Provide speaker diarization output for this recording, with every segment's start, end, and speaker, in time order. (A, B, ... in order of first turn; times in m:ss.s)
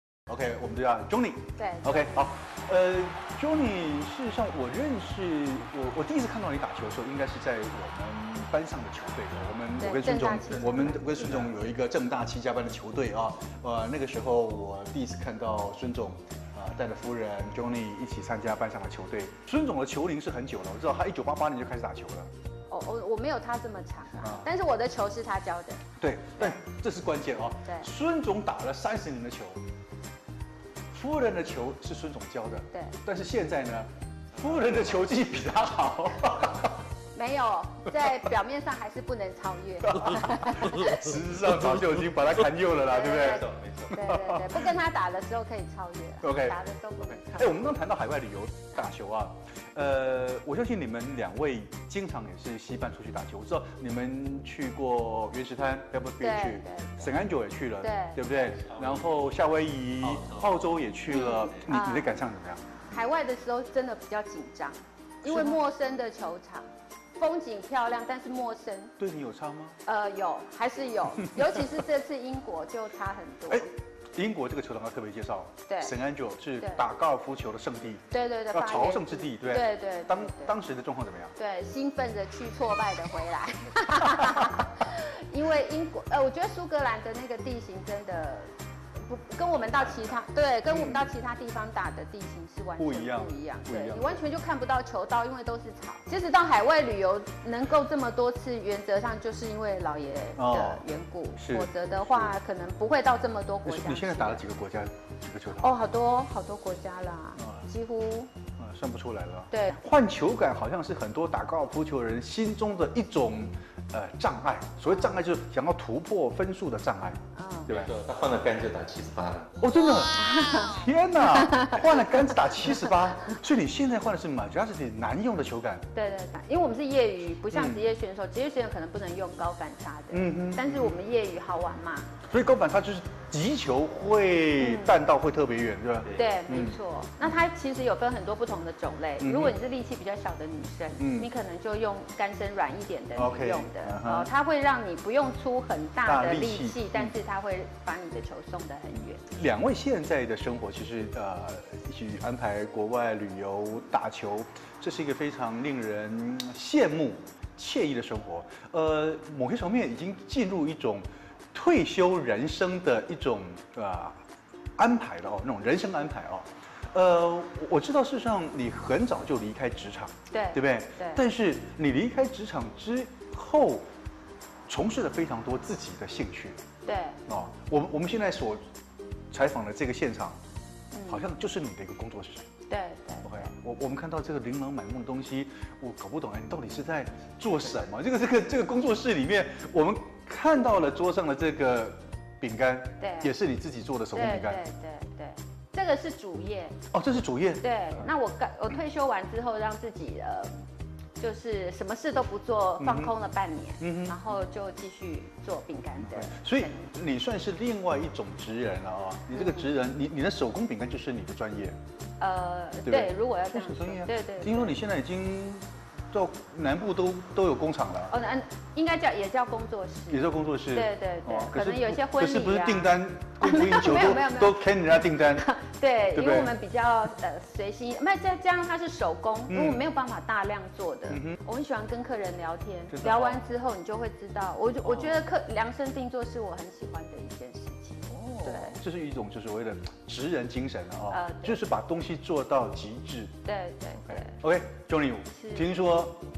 0:00.3-0:22.3 A
0:01.6-0:02.3 B
0:09.8-0:11.2 B
0:22.7-0:25.8 B
0:24.2-0:24.5 A
0:26.0-0:29.6 A
0:27.6-0:27.9 B
0:30.9-0:36.8 A
0:37.1-0:41.0 B
0:39.9-0:44.7 A
0:42.8-0:47.7 B
0:43.5-0:43.9 C
0:46.2-1:02.6 A
0:56.2-0:57.2 B
0:57.8-0:58.2 B
0:58.7-0:59.2 C
1:00.1-1:00.5 C
1:01.1-1:02.2 B
1:02.9-1:06.7 B
1:05.2-1:05.6 A
1:07.2-1:08.9 B
1:09.0-1:09.8 A
1:09.8-1:13.7 B
1:11.2-1:11.6 A
1:13.5-1:21.3 A
1:15.7-1:15.9 B
1:18.1-1:20.6 B
1:21.4-1:28.5 B
1:29.1-1:44.4 B
1:30.7-1:31.0 A
1:32.8-1:34.2 A
1:40.4-1:42.4 A
1:43.6-1:45.7 A
1:45.6-1:48.3 B
1:47.4-1:47.6 A
1:48.6-1:58.0 A
1:49.5-1:49.8 B
1:57.4-1:57.7 B
1:57.7-1:59.6 C
1:59.6-2:05.9 A
2:00.1-2:01.9 B
2:05.9-2:12.1 B
2:07.5-2:07.9 A
2:10.1-2:11.0 A
2:12.2-2:16.8 A
2:14.6-2:15.0 B
2:16.1-2:29.2 B
2:19.2-2:19.6 A
2:21.0-2:21.3 A
2:23.2-2:24.3 A
2:26.0-2:27.2 A
2:29.3-2:44.2 A
2:44.8-2:53.9 A
2:50.3-2:51.2 B
2:54.7-2:56.6 A
2:56.8-2:57.2 B
2:57.3-2:58.6 A
2:59.3-3:00.4 A
3:00.9-3:01.3 B
3:01.1-3:02.5 A
3:02.7-3:03.5 B
3:03.2-3:14.6 A
3:13.0-3:13.3 B
3:14.1-3:16.8 B
3:16.9-3:18.1 A
3:17.6-3:20.6 B
3:21.2-3:26.9 B
3:22.8-3:23.1 A
3:23.8-3:24.3 A
3:26.0-3:31.8 A
3:29.3-3:29.7 B
3:32.2-3:34.8 B
3:32.8-3:38.2 A
3:38.1-3:58.8 B
3:40.1-3:45.5 A
3:46.2-3:46.6 A
3:49.5-3:49.8 A
3:51.1-3:51.4 A
3:52.9-3:53.4 A
3:54.8-3:55.2 A
3:58.1-4:03.3 A
4:01.1-4:01.6 B
4:03.4-4:04.4 B
4:04.0-4:06.2 A
4:05.3-4:05.7 B